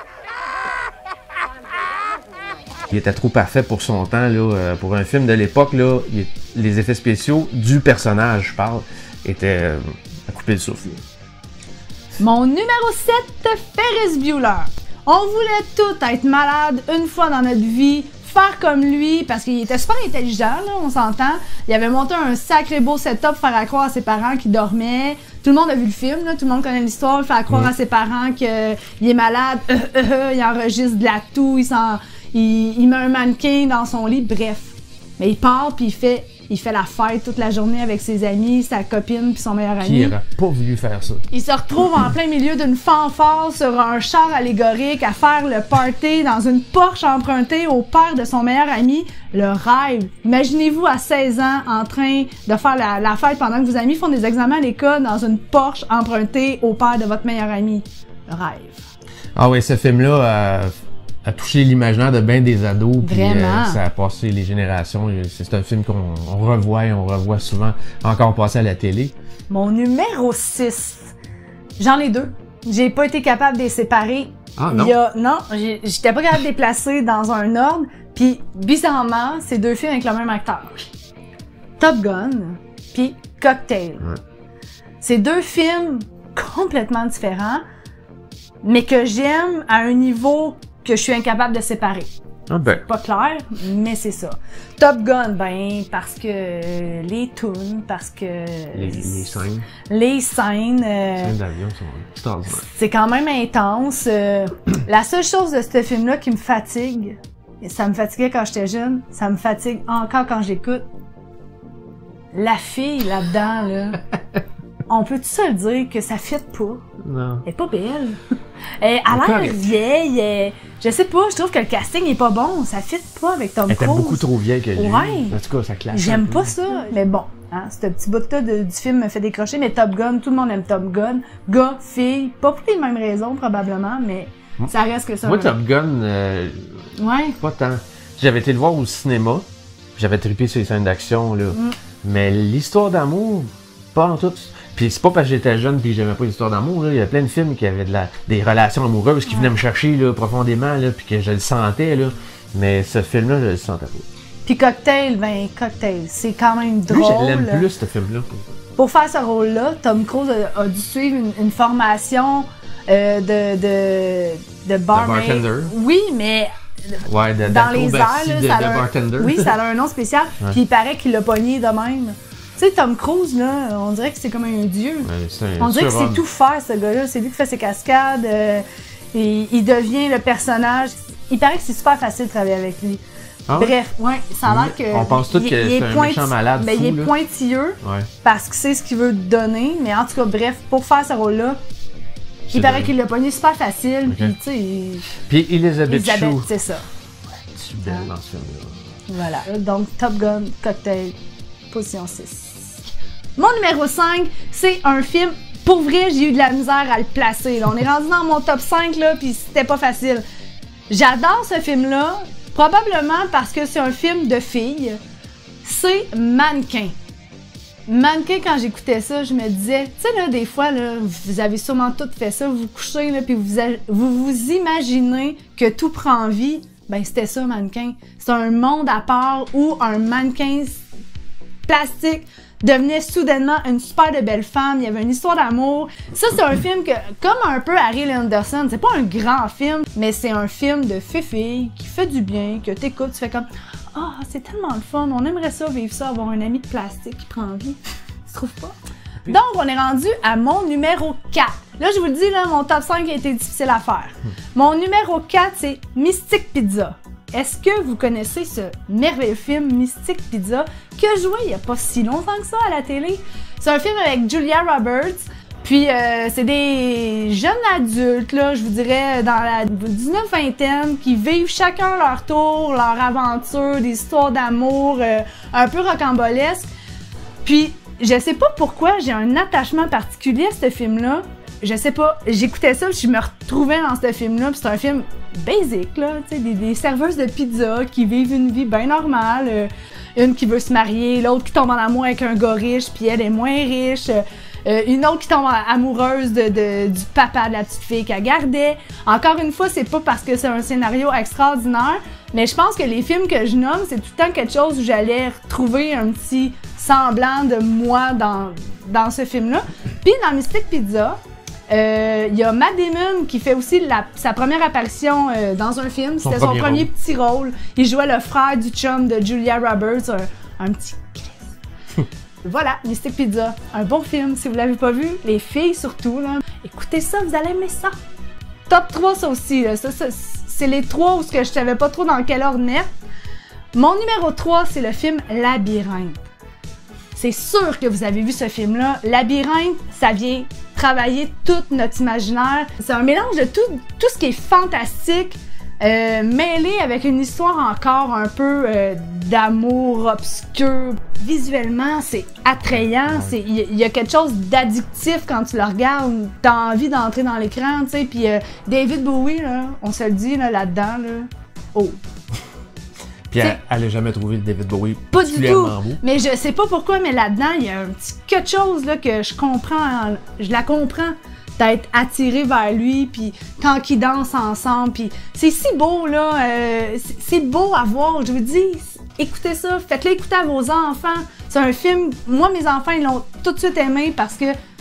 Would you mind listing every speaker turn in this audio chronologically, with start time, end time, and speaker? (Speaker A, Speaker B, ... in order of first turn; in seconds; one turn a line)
Speaker A: 2.9-11.0
Speaker B: 12.2-40.1
Speaker A: 39.8-41.2
Speaker B: 41.3-58.9
Speaker A: 59.4-69.1
Speaker B: 63.0-63.8
Speaker B: 69.5-71.1
Speaker B: 71.8-80.9
Speaker A: 74.6-75.0
Speaker B: 81.8-84.0
Speaker B: 85.0-87.6
Speaker B: 88.6-92.1
Speaker A: 92.5-92.8
Speaker B: 92.8-101.3
Speaker A: 98.7-99.7
Speaker A: 101.2-102.7
Speaker B: 102.5-110.9
Speaker B: 112.3-114.0
Speaker B: 114.9-116.8
Speaker A: 117.0-117.4
Speaker B: 117.4-118.2
Speaker B: 118.8-125.4
Speaker A: 119.1-119.7
Speaker A: 123.7-126.5
Speaker B: 125.9-135.6
Speaker A: 135.2-154.1
Speaker B: 136.9-137.4
Speaker B: 149.2-149.5
Speaker B: 154.4-157.6
Speaker A: 156.9-158.5
Speaker B: 158.8-183.0
Speaker A: 164.9-165.7
Speaker A: 167.1-169.5
Speaker A: 175.0-176.2
Speaker A: 183.5-183.8
Speaker B: 183.6-191.6
Speaker A: 184.4-187.1
Speaker A: 187.8-188.1
Speaker A: 192.5-192.9
Speaker B: 192.5-195.1
Speaker A: 194.1-194.3
Speaker A: 195.2-196.5
Speaker B: 195.9-196.8
Speaker A: 197.5-198.8
Speaker B: 199.1-201.2
Speaker B: 201.7-202.8
Speaker B: 203.4-210.2
Speaker B: 210.9-215.0
Speaker B: 215.6-216.9
Speaker B: 217.9-230.8
Speaker B: 231.7-276.7
Speaker B: 277.4-321.5
Speaker A: 316.2-316.9
Speaker B: 322.4-327.9
Speaker B: 328.7-332.9
Speaker B: 333.7-336.2
Speaker B: 337.1-362.0
Speaker A: 352.6-353.3
Speaker A: 363.3-366.0
Speaker B: 365.1-384.5